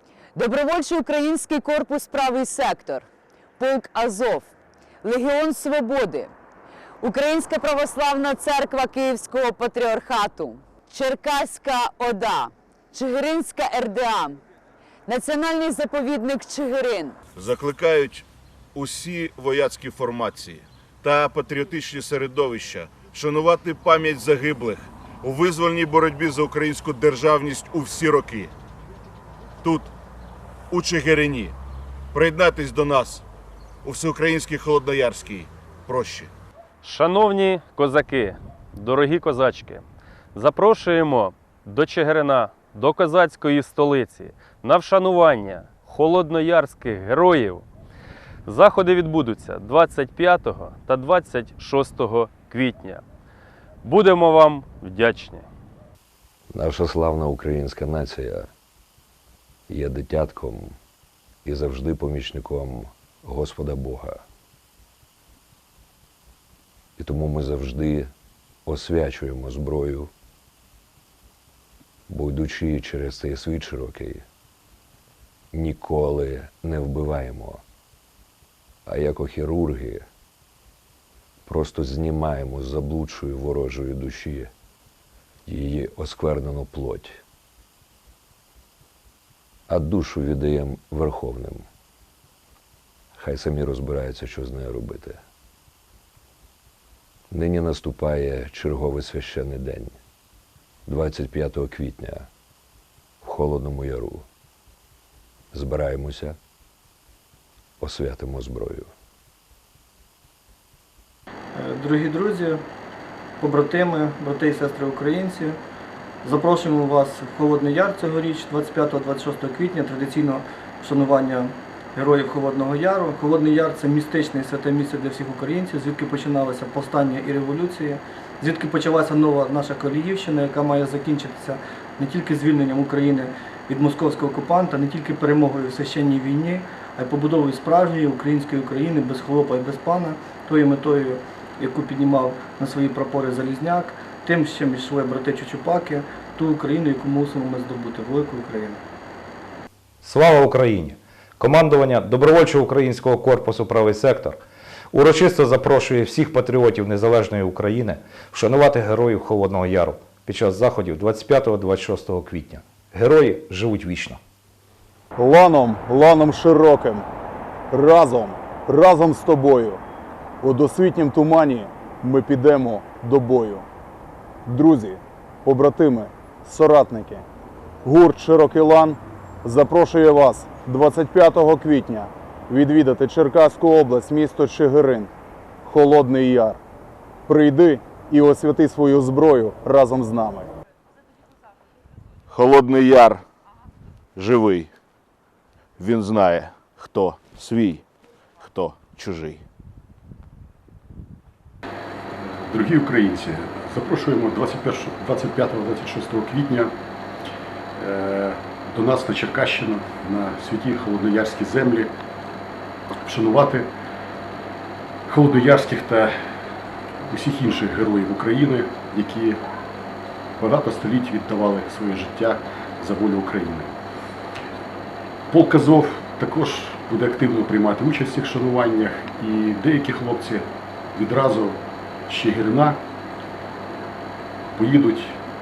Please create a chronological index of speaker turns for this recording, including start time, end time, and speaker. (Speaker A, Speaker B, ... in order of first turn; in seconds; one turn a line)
Speaker A: 0.3-3.1
Speaker A: 3.6-4.5
Speaker A: 5.0-6.3
Speaker A: 7.0-14.4
Speaker A: 15.1-17.1
Speaker B: 17.3-28.5
Speaker B: 29.6-29.9
Speaker B: 30.7-31.6
Speaker B: 32.1-33.2
Speaker B: 33.8-36.3
Speaker C: 36.8-39.8
Speaker C: 40.3-47.6
Speaker C: 48.5-53.0
Speaker C: 53.8-55.4
Speaker D: 56.5-58.5
Speaker D: 59.7-60.8
Speaker D: 61.4-64.2
Speaker D: 67.0-68.1
Speaker D: 68.7-70.1
Speaker D: 72.1-74.2
Speaker D: 75.5-77.6
Speaker D: 78.8-80.1
Speaker D: 81.5-84.5
Speaker D: 85.5-87.2
Speaker D: 89.7-91.7
Speaker D: 93.1-95.2
Speaker D: 97.3-100.0
Speaker D: 100.9-102.3
Speaker D: 103.2-104.2
Speaker D: 105.5-106.4
Speaker D: 107.8-108.9
Speaker E: 111.5-112.6
Speaker E: 113.4-115.6
Speaker E: 116.2-148.8
Speaker F: 150.0-154.4
Speaker F: 154.9-164.2
Speaker G: 165.2-167.1
Speaker G: 167.7-169.8
Speaker G: 170.4-173.7
Speaker G: 174.4-177.2
Speaker G: 177.8-185.1
Speaker G: 185.6-186.6
Speaker G: 187.3-190.5
Speaker B: 192.3-193.2
Speaker B: 194.2-194.7
Speaker B: 195.8-197.8
Speaker B: 198.4-199.4
Speaker H: 202.2-206.7
Speaker H: 207.8-211.9
Speaker H: 213.0-213.7
Speaker H: 215.1-216.1
Speaker H: 217.1-219.4
Speaker H: 220.4-223.7
Speaker H: 225.3-232.8
Speaker H: 234.6-235.2